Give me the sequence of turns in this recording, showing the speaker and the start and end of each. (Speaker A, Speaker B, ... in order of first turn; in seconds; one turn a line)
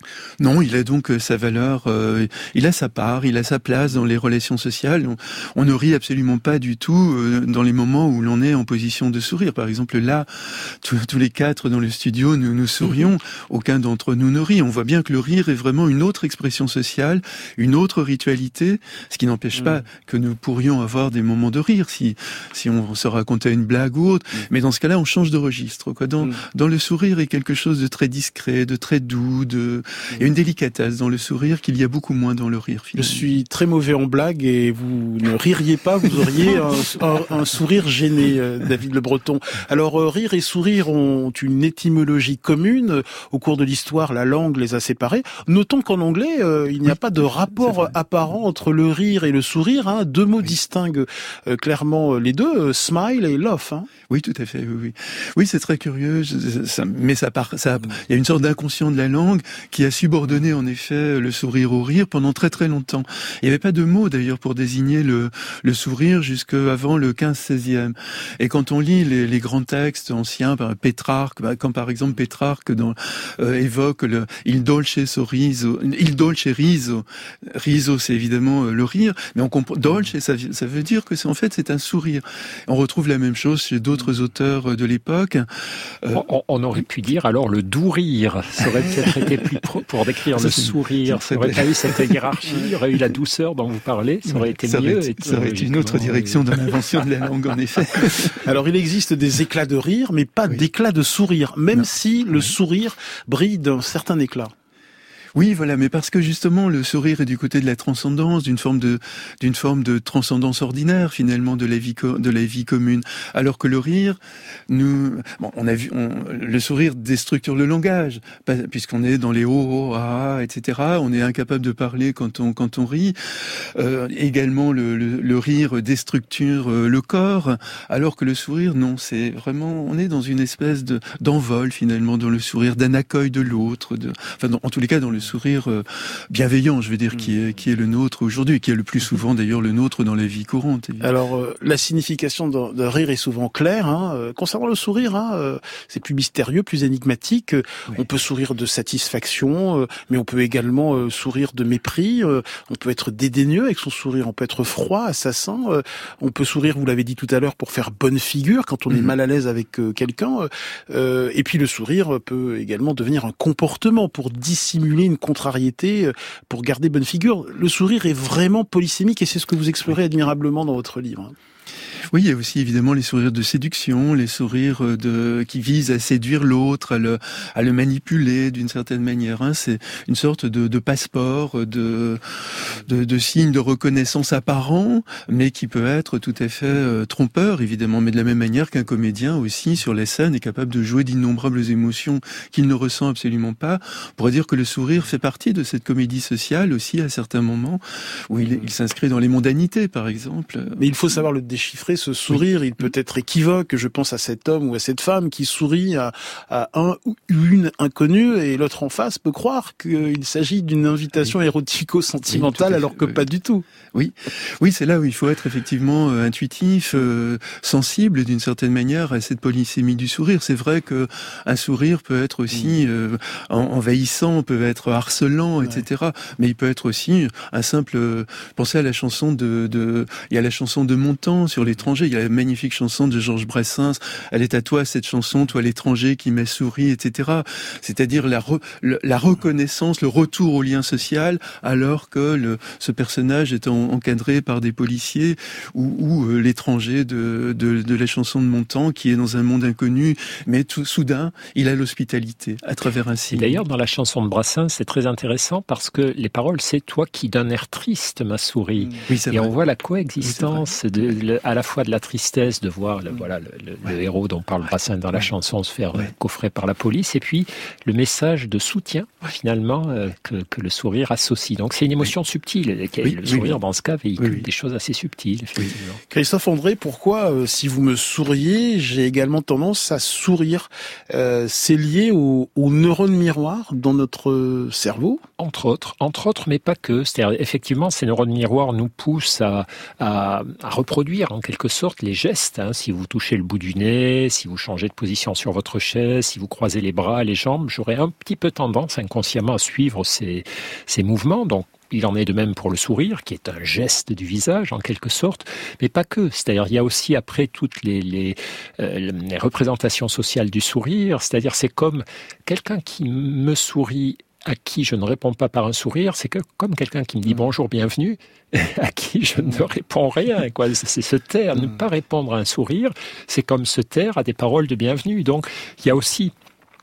Speaker A: 0.4-33.2
Speaker B: 33.0-53.9
Speaker A: 47.6-47.9
Speaker A: 54.1-85.5
Speaker C: 86.1-96.5
Speaker A: 90.3-92.0
Speaker A: 94.6-98.4
Speaker B: 98.5-104.5
Speaker A: 105.3-114.2
Speaker A: 114.7-141.1
Speaker B: 141.0-171.3
Speaker A: 172.1-201.1
Speaker B: 200.8-213.6
Speaker A: 212.3-213.2
Speaker A: 213.9-253.6
Speaker C: 253.3-276.0
Speaker A: 259.1-259.5
Speaker A: 260.2-260.6
Speaker A: 273.0-273.5
Speaker A: 274.2-274.4
Speaker B: 276.1-285.2
Speaker C: 285.4-326.3